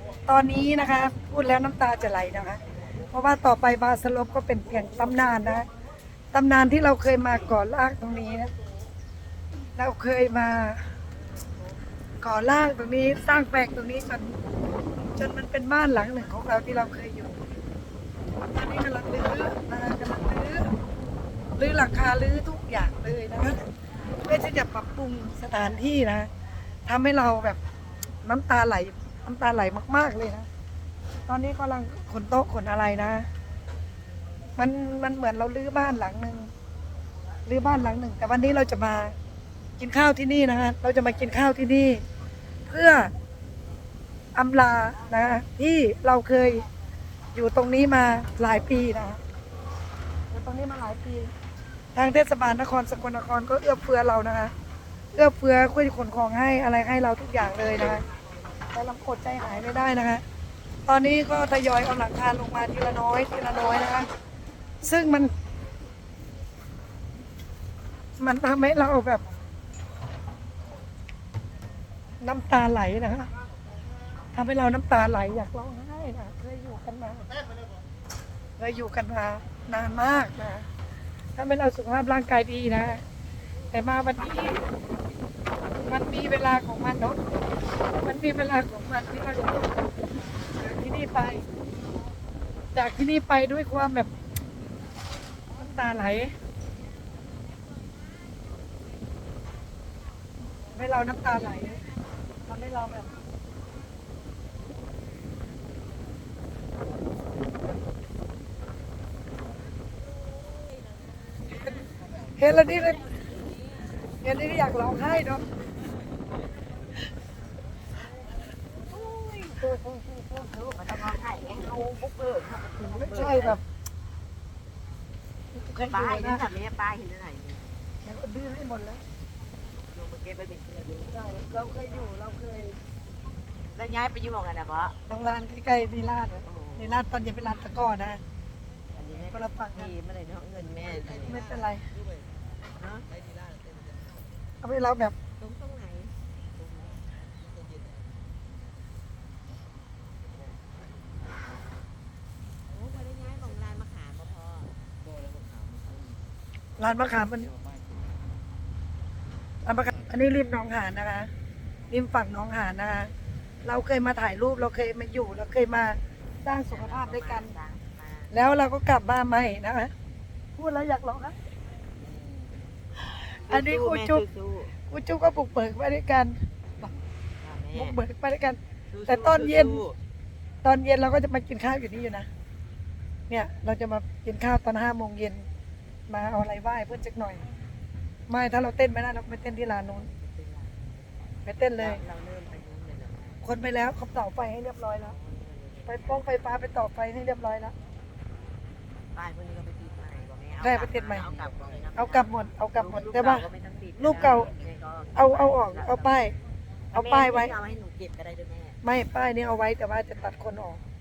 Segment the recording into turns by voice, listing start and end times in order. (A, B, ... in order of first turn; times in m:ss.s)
0:00.3-0:02.6 A
0:03.1-0:05.7 A
0:06.3-0:08.5 A
0:09.8-0:10.8 A
0:12.2-0:14.4 A
0:15.2-0:17.4 A
0:18.5-0:20.7 A
0:21.6-0:23.6 A
0:24.2-0:26.3 A
0:26.9-0:27.6 A
0:28.2-0:30.5 A
0:31.3-0:33.3 A
0:34.6-0:36.5 A
0:37.5-0:39.2 A
0:39.8-0:42.0 A
0:42.7-0:43.1 A
0:44.4-0:46.7 A
0:47.3-0:49.2 A
0:50.3-0:51.3 A
0:52.0-0:54.5 A
0:55.1-0:58.0 A
0:58.7-1:00.2 A
1:00.9-1:04.1 A
1:04.8-1:05.3 A
1:08.2-1:09.2 A
1:12.2-1:13.3 A
1:14.3-1:17.4 A
1:18.6-1:20.7 A
1:21.4-1:23.0 A
1:23.7-1:24.6 A
1:25.9-1:27.2 A
1:27.9-1:29.8 A
1:30.6-1:31.4 A
1:32.7-1:34.1 A
1:35.6-1:36.3 A
1:40.7-1:41.8 A
1:42.5-1:43.1 A
1:52.4-1:53.1 A
1:54.2-1:55.4 A
1:58.9-2:03.6 B
2:03.0-2:03.6 A
2:05.5-2:06.4 A
2:05.9-2:07.8 B
2:08.0-2:09.0 A
2:09.9-2:11.1 B
2:11.1-2:12.8 A
2:13.7-2:15.0 B
2:15.1-2:18.2 A
2:16.4-2:17.1 B
2:18.9-2:21.4 B
2:19.3-2:19.9 A
2:21.3-2:21.9 A
2:22.8-2:23.1 B
2:24.6-2:25.2 A
2:25.4-2:27.1 B
2:32.7-2:34.7 B
2:36.8-2:37.6 A
2:39.6-2:41.3 A
2:41.9-2:43.1 A
2:43.6-2:47.5 A
2:46.6-2:48.3 B
2:48.3-2:49.9 A
2:50.6-2:51.4 A
2:52.0-2:52.5 B
2:53.0-2:54.2 A
2:53.5-2:54.7 B
2:54.9-2:56.9 A
2:57.4-2:58.0 B
2:57.7-2:59.8 A
2:58.9-3:00.0 B
3:00.6-3:02.3 A
3:03.3-3:05.4 A
3:06.1-3:07.4 A
3:08.3-3:10.1 A
3:09.7-3:13.4 B
3:11.4-3:12.0 A
3:13.4-3:15.1 A
3:15.0-3:16.7 B
3:15.9-3:17.7 A
3:19.1-3:26.2 B
3:20.6-3:21.3 A
3:22.0-3:23.5 A
3:24.0-3:24.5 A
3:25.2-3:26.3 A
3:26.9-3:27.5 A
3:26.9-3:28.8 B
3:28.8-3:30.8 A